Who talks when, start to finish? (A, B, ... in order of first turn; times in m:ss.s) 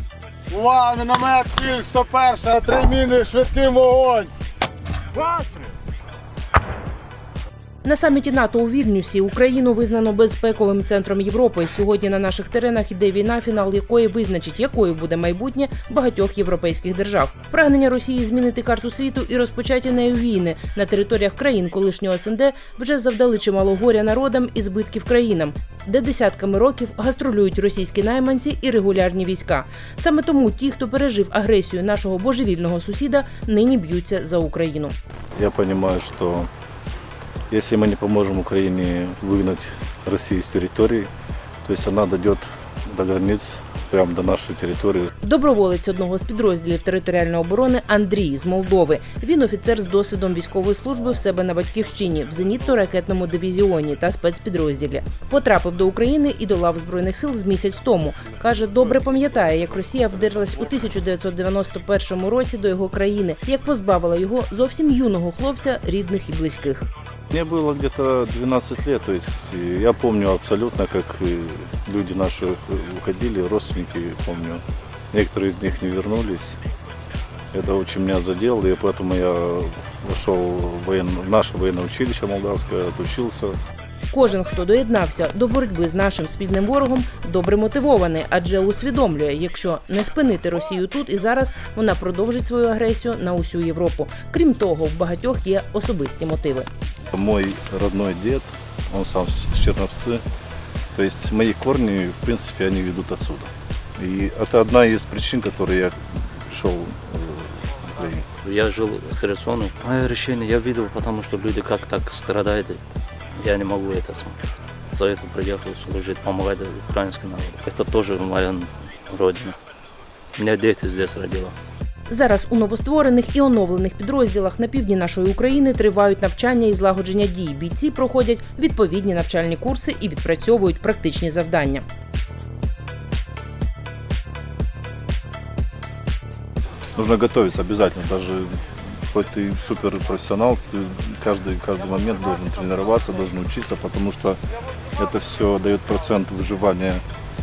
0:00.5-0:04.3 A
0:05.2-0:05.5 A
0:07.8-0:34.9 B
0:35.4-0:36.5 C
0:37.5-0:41.1 C
0:41.6-0:45.1 C
0:45.2-1:06.9 B
1:07.3-1:16.6 C
1:17.5-1:23.6 C
1:24.1-1:36.7 B
1:37.1-1:40.2 C
1:40.9-1:48.3 C
1:48.4-1:52.8 D
1:53.4-1:54.4 D
1:54.9-1:59.6 D
2:00.3-2:01.5 D
2:02.1-2:11.8 B
2:16.9-2:24.4 C
2:25.0-2:27.0 C